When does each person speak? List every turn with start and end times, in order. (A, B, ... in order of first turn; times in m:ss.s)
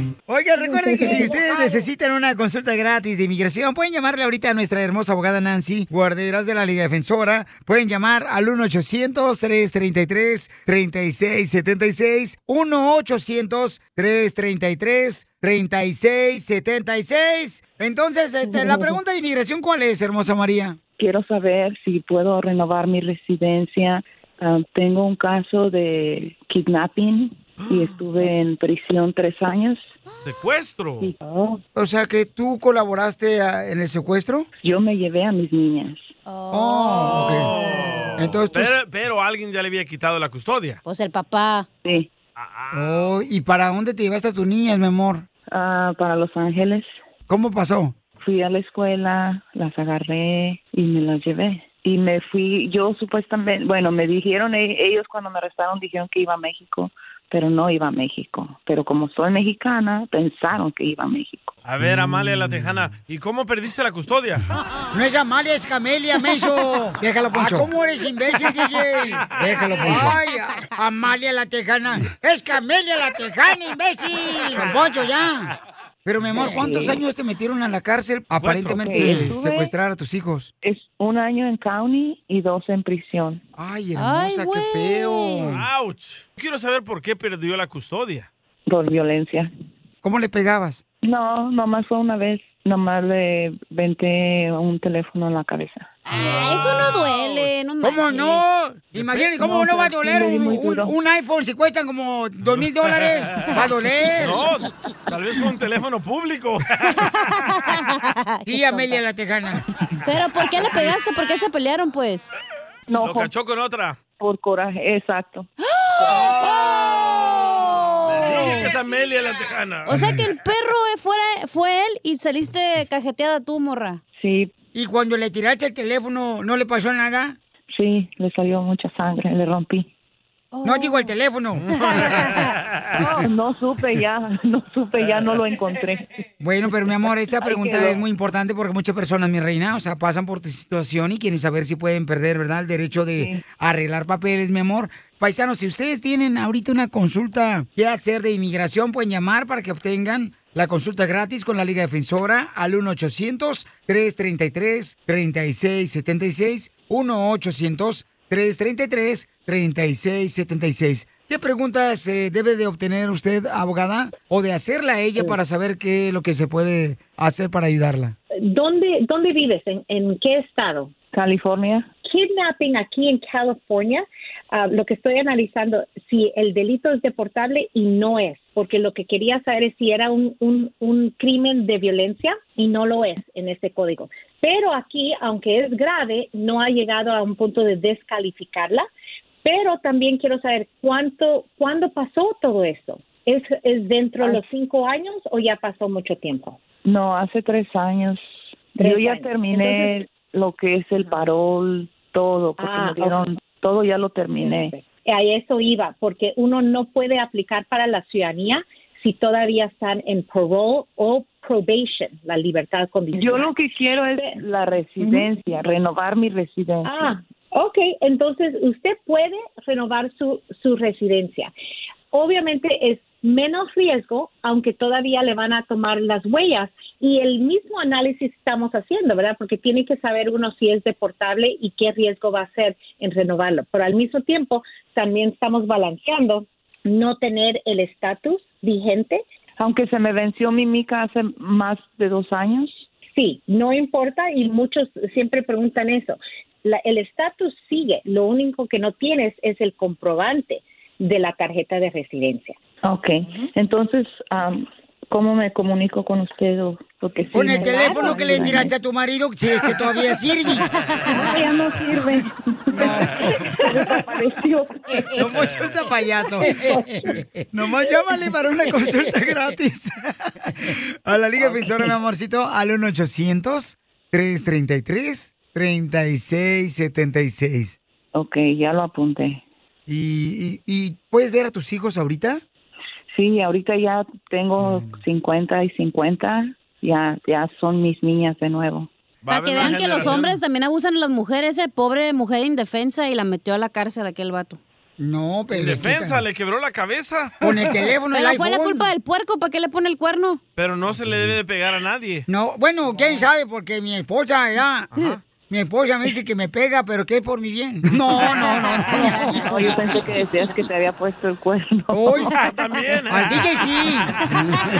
0:00.3-0:20.8 A
0:18.5-0:19.0 B
0:21.0-0:29.9 B
0:30.2-0:31.1 C
0:31.0-0:31.6 B
0:31.8-0:34.5 A
0:34.6-0:36.1 B
0:36.3-0:37.7 D
0:36.5-0:37.5 A
0:37.0-0:40.8 C
0:38.2-0:38.8 A
0:40.8-0:41.7 D
0:41.8-0:42.1 B
0:42.4-0:43.2 C
0:42.7-0:45.3 A
0:45.5-0:47.0 B
0:47.3-0:48.0 A
0:48.2-1:01.6 B
1:01.6-1:04.5 C
1:04.9-1:20.5 A
1:09.2-1:10.2 C
1:16.2-1:17.0 B
1:18.4-1:19.2 C
1:18.8-1:19.8 B
1:20.6-1:23.4 B
1:23.6-1:25.7 A
1:24.0-1:25.5 D
1:25.5-1:28.3 C
1:28.7-1:29.5 B
1:30.0-1:30.8 A
1:31.0-1:35.9 B
1:36.1-1:38.4 D
1:36.1-1:37.2 C
1:37.8-1:44.7 A
1:39.2-1:41.0 B
1:42.5-1:43.6 C
1:44.2-1:47.1 C
1:47.2-1:49.0 D
1:48.5-1:49.6 A
1:50.0-1:52.3 D
1:52.9-1:53.3 B
1:53.0-1:54.0 C
1:54.2-1:55.5 B
1:55.6-1:57.5 D
1:57.4-1:58.7 A
1:58.1-2:00.0 C
1:59.9-2:04.0 D
2:04.2-2:04.5 B
2:04.7-2:07.4 A
2:07.7-2:09.9 B
2:10.5-2:11.1 D
2:10.6-2:11.7 A
2:11.6-2:12.9 C
2:13.0-2:18.0 B
2:16.4-2:48.2 A
2:23.2-2:23.4 B
2:48.5-2:50.9 E
2:51.1-2:51.9 B
2:52.0-3:08.8 E
3:09.4-3:16.6 E
3:14.2-3:14.5 B
3:16.8-3:24.8 B
3:18.8-3:20.0 E
3:22.6-3:23.3 E
3:24.4-3:33.5 E
3:33.1-3:37.2 B
3:35.0-3:35.3 E
3:36.8-3:41.5 E
3:42.1-3:59.2 E
3:59.6-4:02.9 B
4:03.2-4:12.6 E
4:12.8-4:18.8 B
4:17.3-4:20.7 A
4:21.1-4:25.4 B
4:22.7-4:23.6 A
4:25.2-4:37.8 A
4:26.4-4:26.8 B
4:31.4-4:31.9 B
4:38.1-4:39.4 B
4:39.9-4:42.4 A
4:43.1-4:48.9 B
4:44.6-4:45.0 A
4:49.2-4:50.4 C
4:49.3-4:54.6 D
4:55.0-4:56.2 A
4:55.5-4:57.5 C
4:57.4-4:58.9 A
4:58.1-5:00.4 D
5:00.6-5:02.3 C
5:02.3-5:10.2 A
5:04.9-5:05.2 C
5:08.5-5:09.1 D
5:09.0-5:12.3 B
5:11.9-5:12.3 A
5:12.3-5:13.6 C
5:13.1-5:14.1 A